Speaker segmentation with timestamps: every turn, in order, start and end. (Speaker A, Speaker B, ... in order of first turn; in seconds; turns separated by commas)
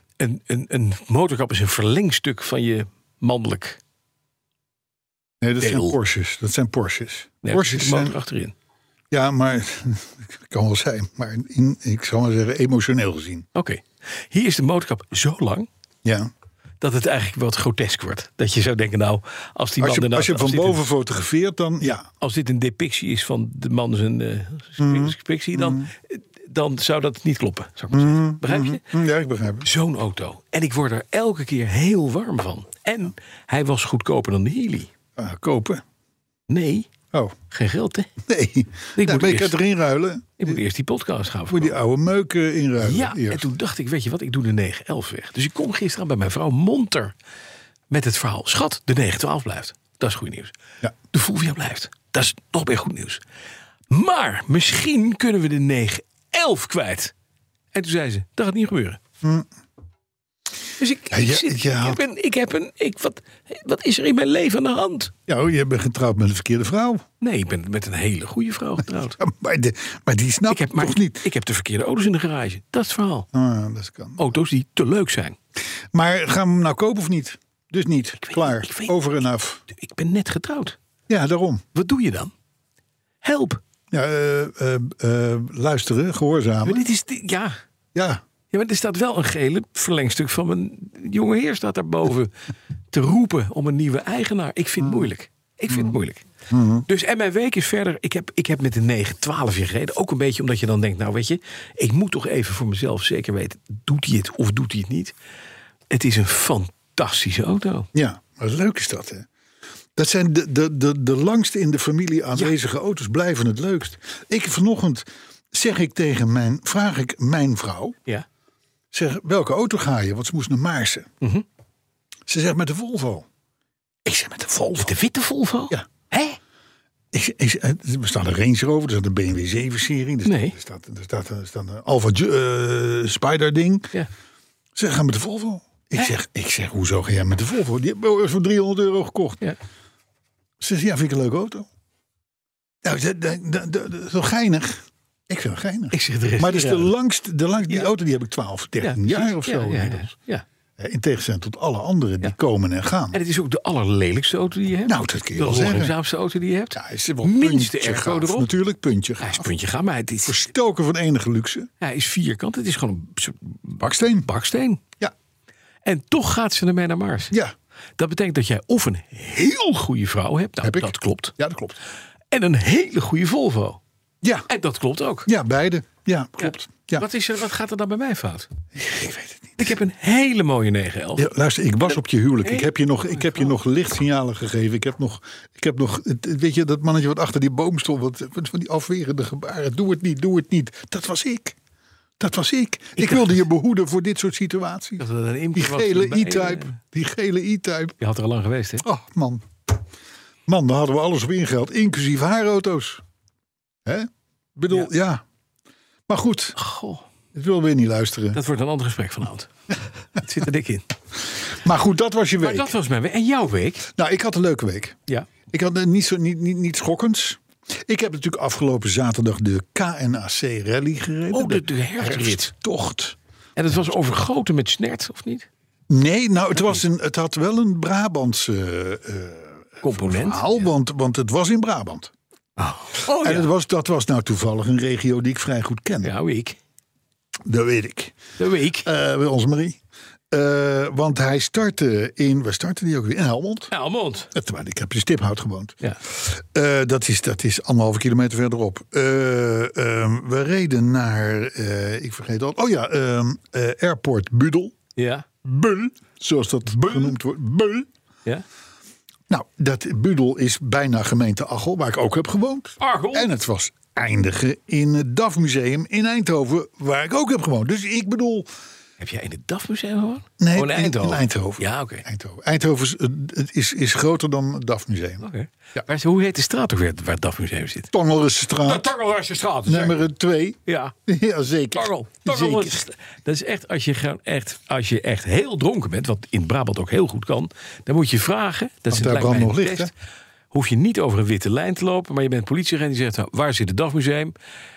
Speaker A: 0.2-3.8, Speaker B: 5.4-8.2, Speaker A: 5.6-6.0, Speaker A: 7.4-8.5, Speaker B: 9.1-13.4, Speaker A: 13.6-15.7, Speaker B: 16.0-16.3, Speaker A: 16.8-20.9, Speaker B: 19.8-22.1, Speaker A: 22.2-28.8, Speaker B: 24.8-25.9, Speaker B: 27.9-29.7, Speaker A: 29.6-34.9, Speaker B: 35.2-35.8, Speaker A: 36.5-36.9, Speaker A: 37.5-38.1, Speaker B: 38.2-40.6, Speaker A: 39.0-39.6, Speaker A: 40.4-41.8, Speaker B: 41.5-43.5, Speaker A: 42.8-47.1, Speaker A: 47.9-50.5, Speaker A: 51.1-53.2, Speaker A: 53.9-57.1, Speaker A: 57.7-59.0, Speaker B: 59.2-59.5, Speaker A: 60.8-65.1, Speaker B: 61.1-62.0, Speaker B: 65.3-67.0, Speaker A: 67.2-69.2, Speaker B: 69.2-71.2, Speaker A: 70.5-73.3, Speaker B: 73.3-74.4, Speaker A: 74.2-75.4, Speaker B: 75.9-79.6, Speaker A: 78.2-78.9, Speaker A: 79.7-80.8, Speaker B: 81.1-81.6, Speaker A: 81.7-82.3, Speaker A: 83.2-83.6, Speaker B: 83.9-86.9, Speaker A: 86.7-87.6, Speaker B: 87.9-88.2, Speaker A: 88.5-92.3, Speaker A: 92.9-96.2, Speaker B: 94.8-95.1, Speaker B: 95.7-96.0, Speaker B: 96.5-96.9, Speaker A: 96.9-105.2, Speaker A: 105.9-107.9, Speaker B: 107.9-109.3, Speaker B: 110.0-118.0, Speaker B: 118.9-121.1, Speaker B: 122.3-123.3, Speaker B: 124.0-125.0, Speaker A: 124.8-126.4, Speaker B: 127.1-133.9, Speaker A: 130.2-130.6, Speaker B: 134.8-139.4, Speaker B: 140.6-141.7, Speaker B: 142.8-150.1, Speaker A: 145.9-146.9, Speaker A: 148.8-150.4, Speaker B: 150.8-153.2, Speaker A: 153.1-158.5, Speaker B: 154.9-155.9, Speaker B: 156.7-159.5, Speaker A: 159.2-160.4, Speaker B: 160.2-161.7, Speaker A: 161.8-164.8, Speaker B: 163.8-164.3, Speaker A: 165.8-167.3, Speaker A: 168.0-171.3, Speaker B: 170.6-171.8, Speaker A: 172.3-173.8, Speaker B: 174.2-174.5, Speaker A: 174.5-175.3, Speaker B: 175.3-177.1, Speaker A: 176.4-178.5, Speaker B: 178.8-179.8, Speaker A: 179.6-181.3, Speaker B: 181.2-191.6, Speaker A: 181.9-183.5, Speaker B: 192.2-198.0, Speaker A: 193.0-193.4, Speaker A: 195.0-196.8, Speaker A: 198.0-198.8, Speaker B: 198.8-199.5, Speaker B: 200.5-203.0, Speaker B: 203.8-205.2, Speaker B: 206.1-206.6, Speaker A: 206.6-207.1, Speaker B: 207.3-208.4, Speaker A: 208.3-209.5, Speaker A: 210.2-210.9, Speaker B: 211.5-212.7, Speaker A: 212.4-213.9, Speaker B: 213.9-215.0, Speaker B: 215.5-223.2, Speaker A: 221.3-222.5, Speaker A: 223.6-225.5, Speaker B: 225.9-232.1, Speaker A: 229.8-230.6, Speaker A: 232.6-233.5, Speaker B: 233.1-236.1, Speaker A: 236.0-236.6, Speaker B: 237.4-238.2, Speaker A: 238.4-238.9, Speaker B: 238.8-239.8, Speaker B: 240.3-243.7, Speaker A: 243.7-244.3, Speaker B: 244.3-254.8, Speaker A: 255.0-255.3, Speaker B: 255.4-257.9, Speaker A: 256.8-257.1, Speaker B: 259.3-268.5, Speaker A: 262.8-263.3, Speaker A: 269.0-272.1, Speaker B: 270.4-275.9, Speaker A: 275.2-277.9, Speaker B: 277.9-278.9, Speaker A: 278.6-280.0, Speaker B: 279.6-282.8, Speaker A: 280.7-280.9, Speaker A: 281.7-289.9, Speaker B: 288.9-289.9, Speaker A: 290.5-294.3